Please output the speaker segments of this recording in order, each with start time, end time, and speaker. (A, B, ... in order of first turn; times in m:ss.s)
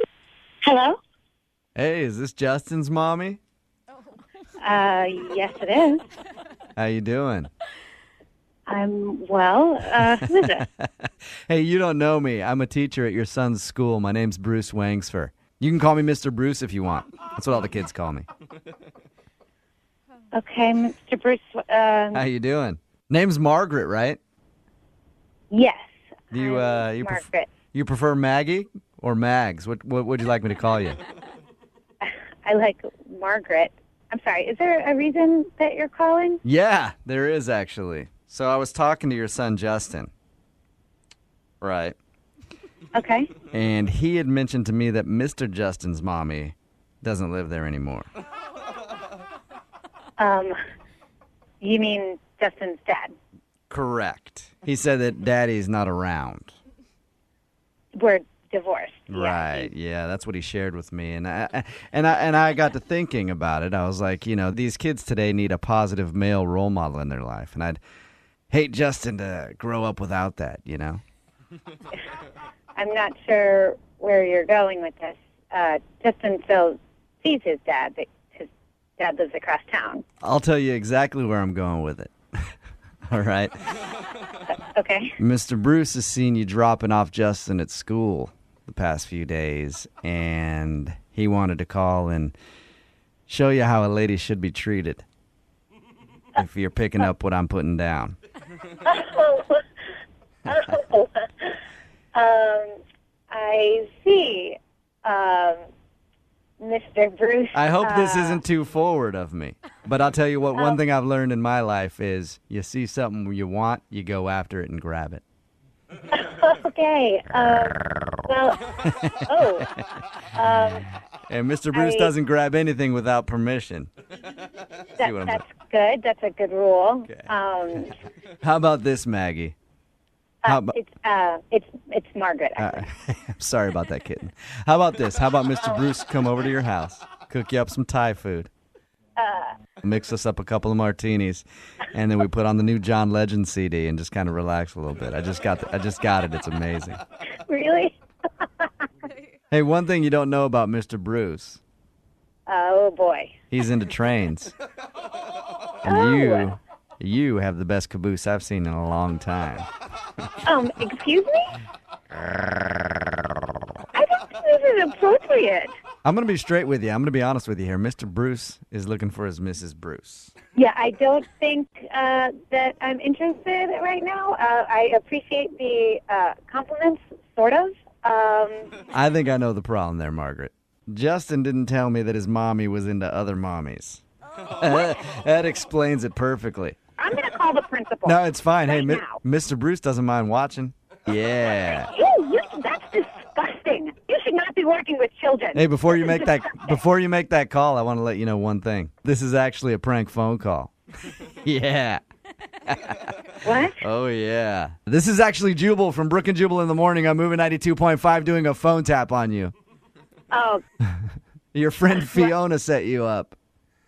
0:00.6-0:01.0 A
0:01.8-0:03.4 B
0:04.6-0:06.0 A
0:06.8-0:07.5 B
0:08.7-0:10.6 A
0:11.5-0:18.3 B
0:20.3-0:22.2 A
0:22.1-0:24.2 B
0:25.5-0:27.5 A
0:26.3-0:31.0 B
0:32.0-0:36.4 A
0:36.4-0:40.1 B
0:41.6-0:42.0 B
0:42.9-0:43.3 A
0:43.5-0:48.1 B
0:50.2-0:50.6 A
0:51.6-0:53.1 A
0:53.7-0:56.5 B
0:57.9-0:59.7 A
0:59.1-1:07.8 B
1:08.5-1:11.0 B
1:12.8-1:20.0 A
1:20.2-1:22.5 B
1:23.1-1:23.5 B
1:24.6-1:25.2 A
1:25.2-1:32.3 B
1:33.3-1:35.0 B
1:36.4-1:38.2 B
1:38.8-1:39.6 A
1:40.4-1:41.6 A
1:42.1-1:42.8 A
1:43.3-1:45.6 A
1:46.6-1:48.4 A
1:47.5-1:55.2 B
1:56.1-1:59.7 A
2:00.3-2:00.9 A
2:01.3-2:03.9 B
2:01.7-2:02.1 A
2:05.0-2:07.9 A
2:05.0-2:05.4 B
2:08.4-2:09.5 B
2:10.4-2:12.8 A
2:10.4-2:10.7 B
2:12.6-2:18.5 B
2:19.2-2:19.5 A
2:19.8-2:27.0 B
2:27.4-2:28.7 A
2:29.5-2:31.6 B
2:32.5-2:33.3 A
2:33.5-2:34.5 B
2:35.8-2:39.7 B
2:35.8-2:36.5 A
2:40.4-2:41.6 A
2:43.9-2:45.7 A
2:46.0-2:50.3 B
2:50.5-2:58.7 A
2:58.9-3:04.0 B
3:04.6-3:06.8 B
3:07.0-3:09.2 A
3:08.0-3:11.9 B
3:11.6-3:16.8 A
3:15.5-3:20.7 B
3:21.4-3:22.0 B
3:22.6-3:23.1 B
3:23.4-3:23.8 A
3:23.7-3:29.5 B
3:30.3-3:30.6 A
3:31.5-3:33.3 B
3:32.0-3:32.3 A